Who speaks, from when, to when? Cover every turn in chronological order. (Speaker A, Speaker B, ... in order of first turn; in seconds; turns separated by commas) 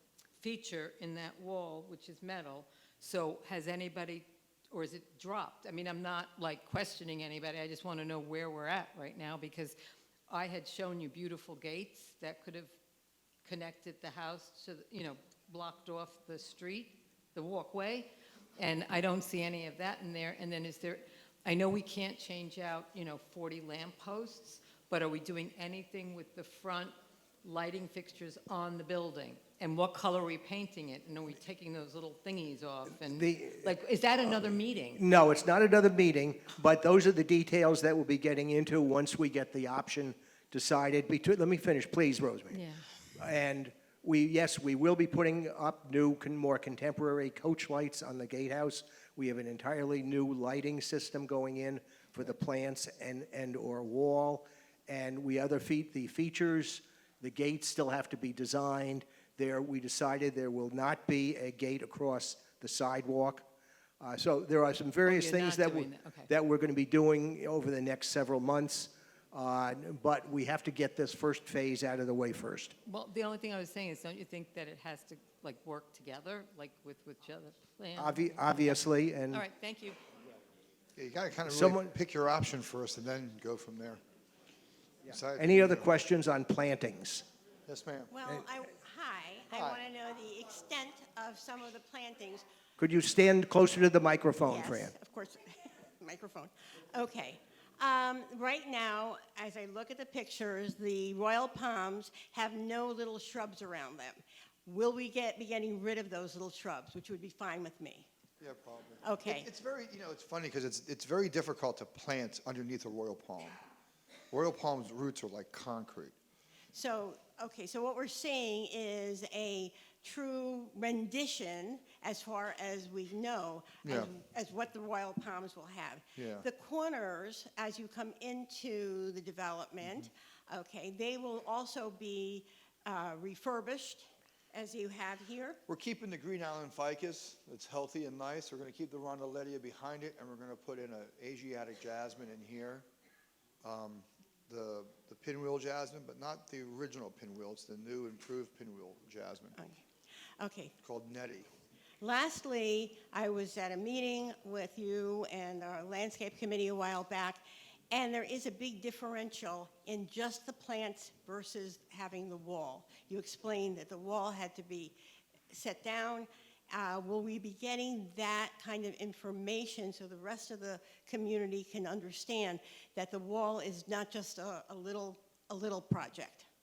Speaker A: 0.4-9.8, Speaker A: 10.3-12.7, Speaker A: 13.4-35.0, Speaker B: 33.1-33.7, Speaker B: 34.4-42.6, Speaker A: 42.5-42.8, Speaker B: 43.1-63.5, Speaker B: 64.0-72.7, Speaker A: 65.0-66.3, Speaker A: 72.8-80.0, Speaker B: 78.0-79.4, Speaker C: 81.0-84.0, Speaker B: 81.4-81.9, Speaker B: 85.0-87.2, Speaker C: 85.1-85.9, Speaker C: 87.7-88.1, Speaker D: 88.1-92.4, Speaker C: 89.5-89.8, Speaker B: 92.8-94.9, Speaker D: 94.4-108.1, Speaker C: 108.4-113.6, Speaker D: 109.0-109.5, Speaker C: 114.3-116.2, Speaker D: 116.7-135.6, Speaker C: 123.8-124.1, Speaker C: 126.2-126.5, Speaker C: 135.7-142.9, Speaker C: 143.6-149.6, Speaker D: 149.6-149.8, Speaker D: 150.4-150.7, Speaker C: 150.8-151.5, Speaker D: 152.0-164.9, Speaker D: 165.5-176.5